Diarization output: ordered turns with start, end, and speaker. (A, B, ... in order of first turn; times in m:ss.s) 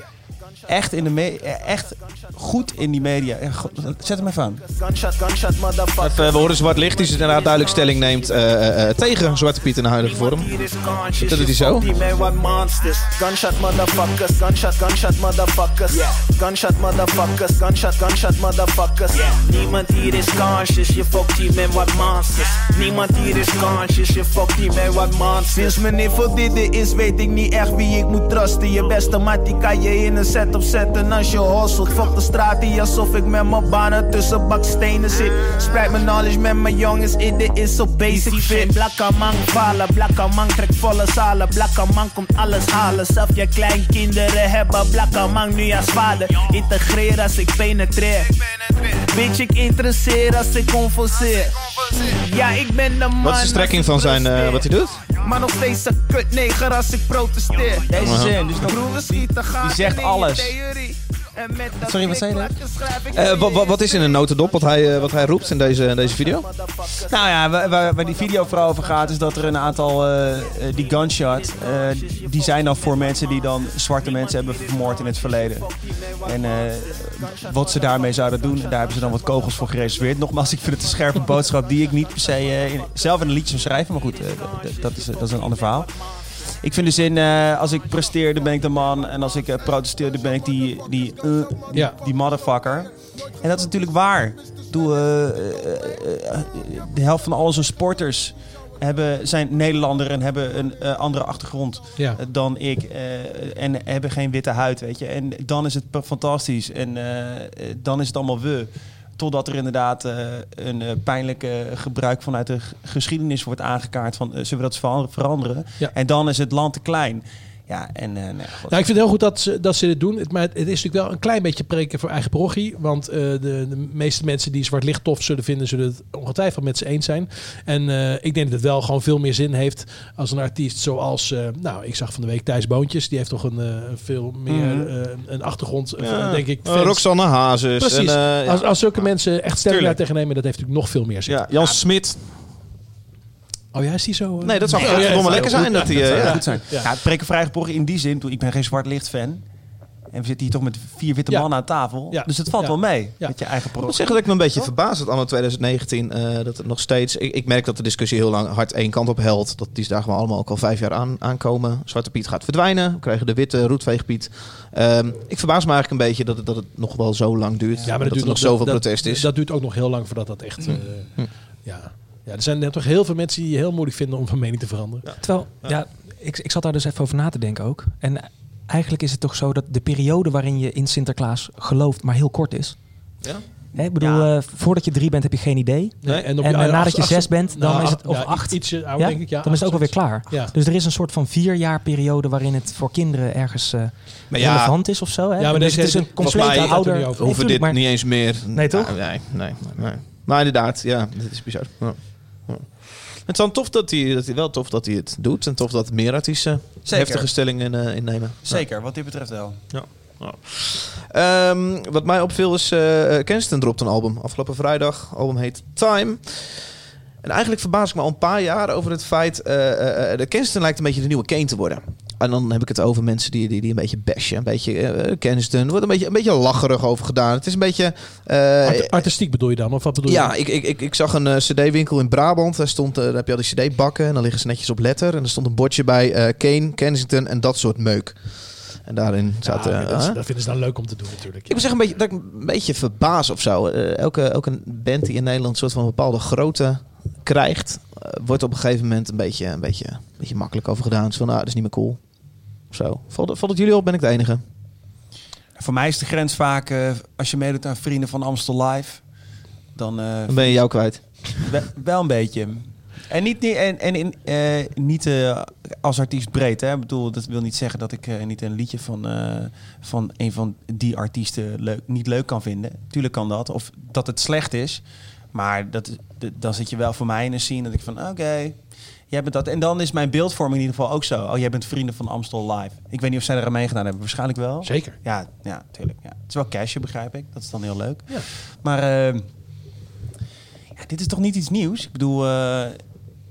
0:00.4-0:01.0 A
0:00.7-0:04.6 B
0:01.7-0:02.5 A
0:04.2-0:09.4 A
0:06.0-0:10.6 C
0:10.0-1:07.2 A
0:11.2-0:11.9 C
0:38.1-0:38.6 C
0:53.2-0:55.0 C
0:57.9-1:00.6 B
0:58.0-0:58.3 C
1:01.8-1:02.6 B
1:03.1-1:06.5 C
1:07.1-1:58.9 B
1:07.8-1:20.1 A
1:22.0-1:22.6 A
1:24.2-1:26.1 A
1:31.7-1:32.1 D
1:42.0-1:42.2 D
1:58.7-2:21.8 D
2:14.5-2:14.9 B
2:16.0-2:20.0 C
2:21.2-2:22.2 C
2:23.7-2:26.9 D
2:24.4-2:26.6 C
2:24.7-2:29.5 B
2:30.1-2:34.7 B
2:31.3-2:33.4 D
2:33.8-2:49.3 C
2:47.8-2:55.2 D
2:50.7-2:51.3 C
2:55.0-2:55.8 C
2:55.2-3:19.8 E
3:03.2-3:03.5 C
3:03.7-3:04.3 B
3:06.0-3:10.5 D
3:14.3-3:14.8 C
3:15.4-3:17.4 D
3:16.2-3:28.8 C
3:26.9-3:27.3 B
3:28.4-3:29.9 B
3:29.7-3:49.1 C
3:48.6-3:50.3 D
3:50.0-4:00.2 C
3:59.4-4:01.7 D
4:01.5-4:14.4 C
4:15.6-4:49.4 B
4:20.3-4:21.4 C
4:44.6-4:45.0 D
4:50.8-4:52.9 B